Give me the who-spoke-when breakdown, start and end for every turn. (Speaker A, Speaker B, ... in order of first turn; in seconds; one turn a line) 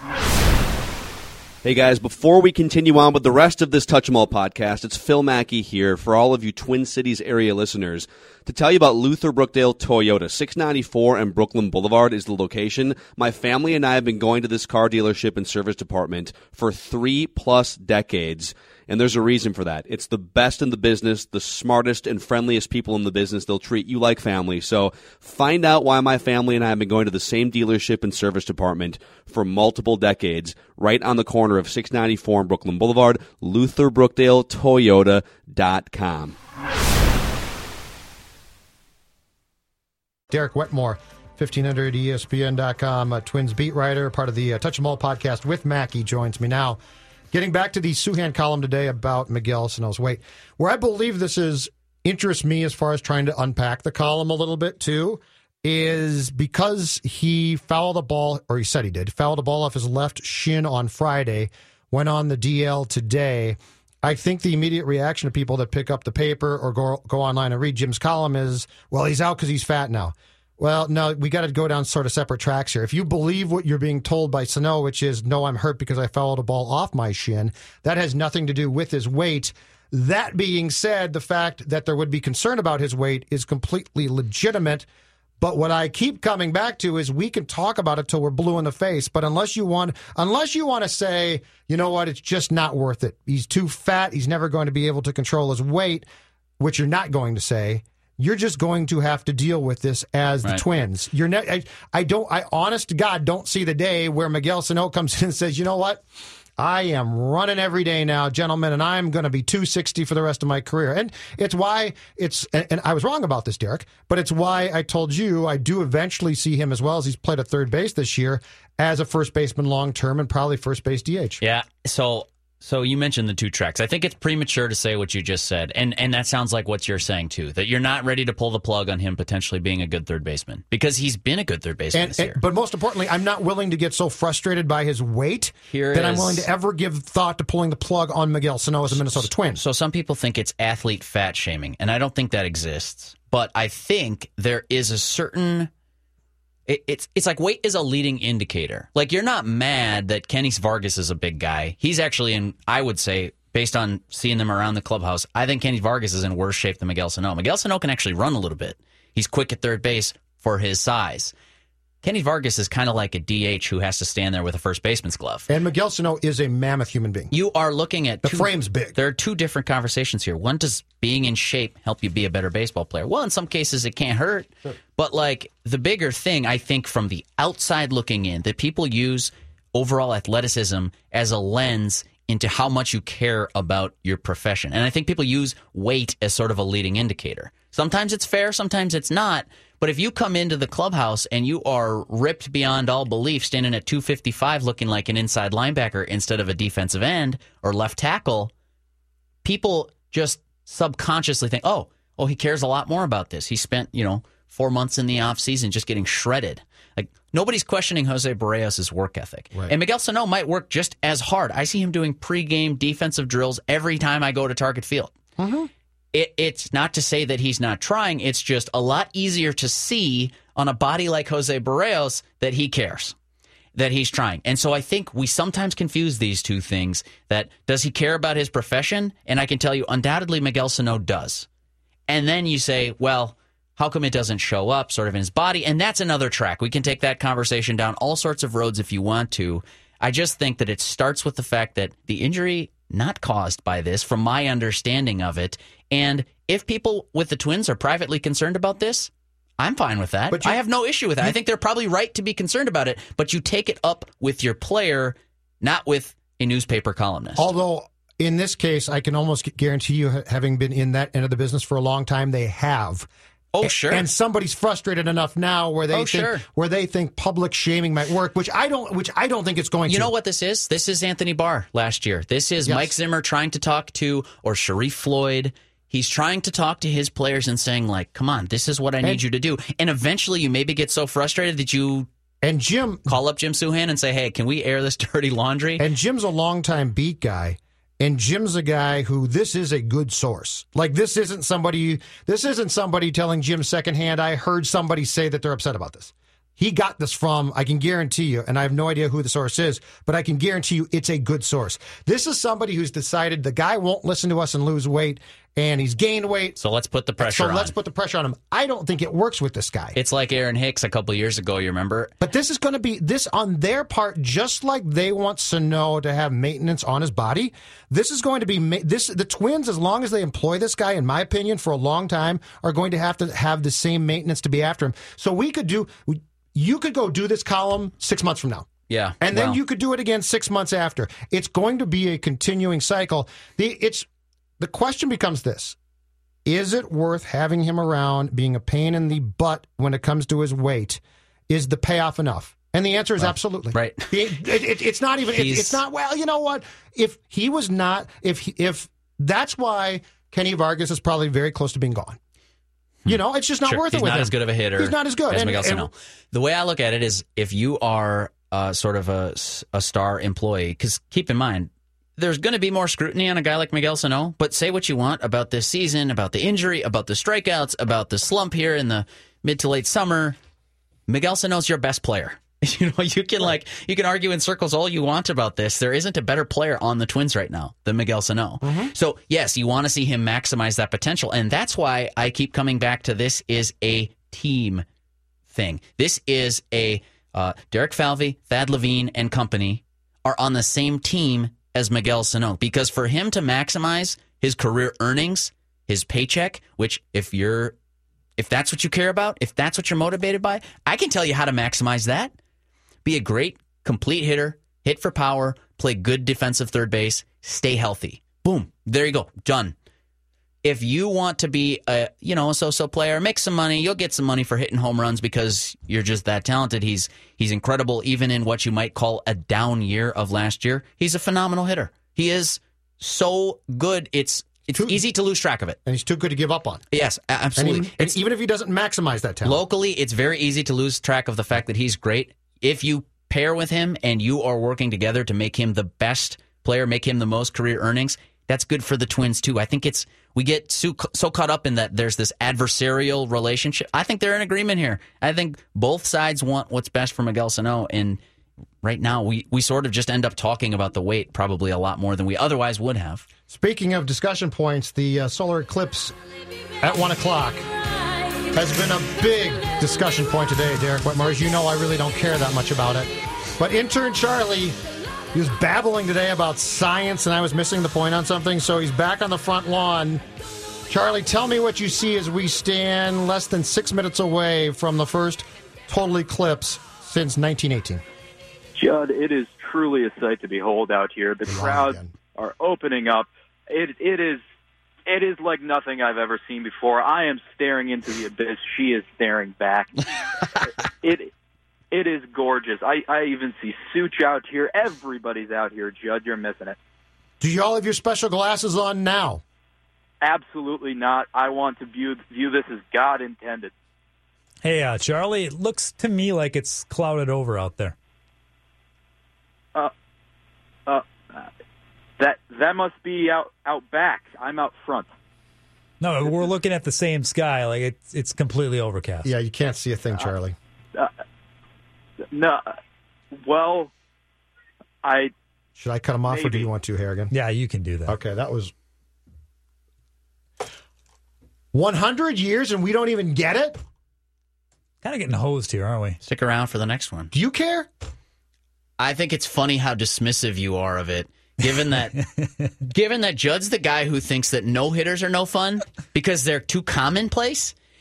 Speaker A: 1.6-36.4
Speaker B: 40.3-46.8
Speaker B: 47.3-84.9
Speaker B: 85.4-96.0
Speaker B: 96.6-106.0
Speaker B: 106.6-121.4
Speaker C: 121.4-132.4
Speaker B: 131.9-139.6
Speaker C: 135.7-136.5
Speaker C: 138.9-145.7
Speaker C: 146.7-161.3
Speaker C: 162.0-165.5
Speaker B: 165.5-167.3
Speaker C: 167.3-198.5
Speaker B: 168.2-168.9
Speaker C: 199.4-215.1
Speaker B: 215.4-215.7
Speaker C: 216.1-223.2
Speaker C: 223.8-231.5
Speaker C: 232.1-257.5
Speaker B: 250.3-250.6
Speaker B: 257.4-263.1
Speaker C: 263.5-264.1
Speaker B: 263.6-270.1
Speaker C: 265.9-266.4
Speaker C: 269.9-282.1
Speaker B: 272.7-272.9
Speaker B: 282.4-283.1
Speaker C: 283.1-285.9
Speaker B: 285.8-306.6
Speaker C: 306.6-307.7
Speaker B: 307.2-310.0
Speaker C: 309.9-312.1
Speaker B: 312.2-328.7
Speaker C: 328.9-329.6
Speaker B: 329.2-334.1
Speaker B: 334.6-335.8
Speaker B: 336.4-352.2
Speaker C: 343.2-344.1
Speaker C: 345.3-345.8
Speaker C: 353.1-370.4
Speaker B: 353.1-355.9
Speaker C: 371.1-384.8
Speaker B: 378.6-378.9
Speaker C: 385.5-397.8
Speaker C: 398.4-402.3
Speaker C: 403.1-409.7
Speaker C: 410.6-425.8
Speaker B: 424.8-425.0
Speaker B: 425.9-426.9
Speaker C: 426.9-428.2
Speaker B: 427.6-429.6
Speaker C: 429.4-448.2
Speaker C: 448.8-453.3
Speaker B: 453.5-456.1
Speaker B: 456.8-457.7
Speaker B: 458.5-464.8
Speaker B: 465.3-470.2
Speaker B: 470.9-478.0
Speaker D: 478.8-484.4
Speaker B: 481.5-482.1
Speaker D: 485.1-490.0
Speaker D: 491.0-491.3
Speaker D: 491.9-496.8
Speaker B: 497.4-499.4
Speaker D: 500.2-503.7
Speaker E: 504.6-508.0
Speaker D: 510.9-511.4
Speaker D: 512.2-515.1
Speaker E: 516.0-519.3
Speaker B: 519.2-520.6
Speaker D: 522.3-522.6
Speaker D: 523.4-523.9
Speaker D: 525.0-525.3
Speaker B: 525.8-527.3
Speaker D: 526.3-526.7
Speaker E: 527.3-528.1
Speaker B: 528.1-528.7
Speaker B: 531.7-533.8
Speaker E: 535.0-536.2
Speaker C: 536.2-537.3
Speaker B: 537.3-537.9
Speaker C: 539.0-542.1
Speaker C: 542.9-547.7